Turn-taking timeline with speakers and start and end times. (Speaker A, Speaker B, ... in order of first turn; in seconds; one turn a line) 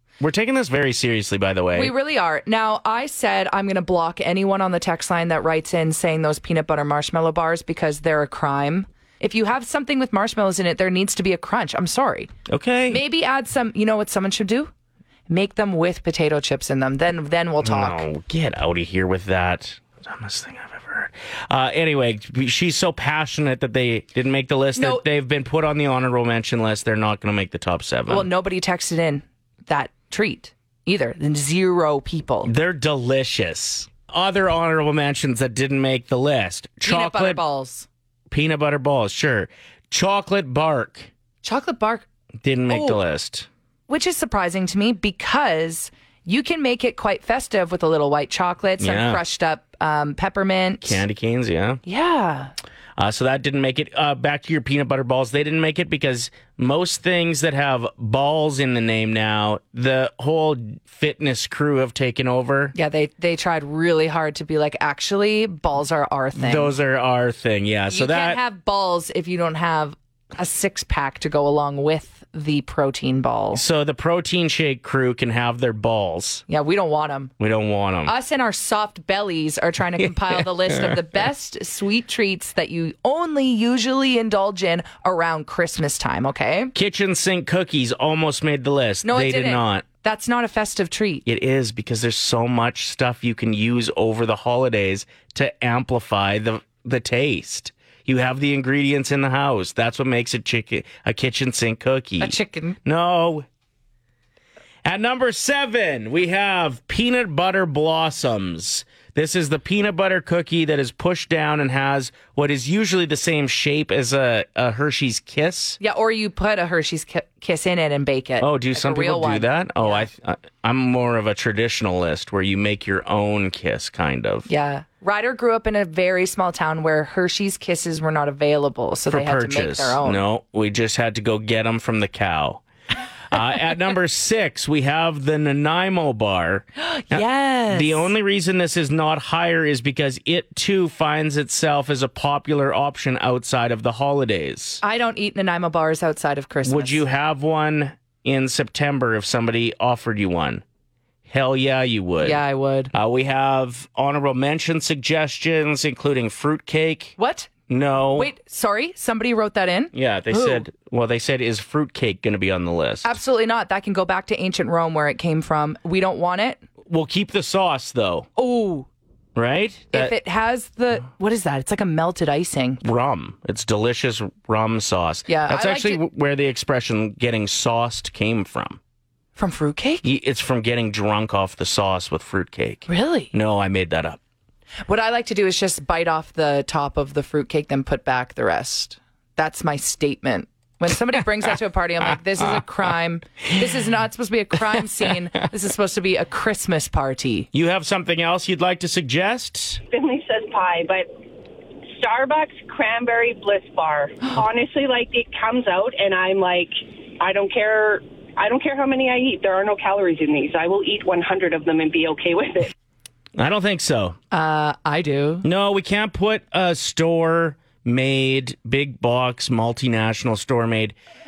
Speaker A: 0.2-1.9
Speaker B: 1.7-12.3
Speaker A: 12.5-13.0
Speaker B: 12.9-14.7
Speaker B: 15.3-18.0
Speaker A: 17.6-28.3
Speaker B: 24.7-25.0
Speaker B: 28.1-32.5
Speaker A: 32.4-37.4
Speaker B: 36.8-37.9
Speaker A: 38.3-41.1
Speaker B: 41.4-42.0
Speaker A: 42.4-43.5
Speaker B: 42.7-43.0
Speaker B: 43.9-51.0
Speaker A: 48.8-49.2
Speaker A: 50.8-51.8
Speaker B: 51.8-52.5
Speaker A: 53.0-62.7
Speaker B: 62.7-66.8
Speaker A: 66.3-68.4
Speaker B: 67.9-73.6
Speaker A: 73.5-76.4
Speaker B: 76.5-77.3
Speaker A: 77.4-78.1
Speaker B: 78.0-86.7
Speaker A: 80.0-81.0
Speaker A: 86.7-89.8
Speaker B: 89.0-91.2
Speaker A: 91.2-103.5
Speaker B: 102.2-102.8
Speaker A: 104.8-115.8
Speaker B: 115.8-120.1
Speaker A: 118.4-124.5
Speaker B: 124.5-130.2
Speaker A: 129.1-132.6
Speaker A: 133.3-144.8
Speaker B: 136.8-138.1
Speaker B: 144.8-147.0
Speaker A: 146.6-150.6
Speaker A: 151.3-152.4
Speaker B: 152.2-152.9
Speaker A: 152.9-157.2
Speaker B: 157.2-157.5
Speaker A: 157.7-158.3
Speaker B: 158.1-160.6
Speaker A: 159.9-163.1
Speaker B: 163.0-166.6
Speaker A: 166.8-168.3
Speaker B: 168.3-168.9
Speaker A: 169.3-170.2
Speaker B: 169.9-172.8
Speaker A: 172.8-178.8
Speaker B: 175.3-176.0
Speaker B: 179.3-180.0
Speaker A: 180.0-184.2
Speaker B: 182.9-183.3
Speaker B: 184.9-197.5
Speaker A: 197.5-199.8
Speaker C: 199.9-201.1
Speaker C: 202.0-212.7
Speaker A: 213.3-214.2
Speaker B: 214.3-215.4
Speaker A: 215.4-220.9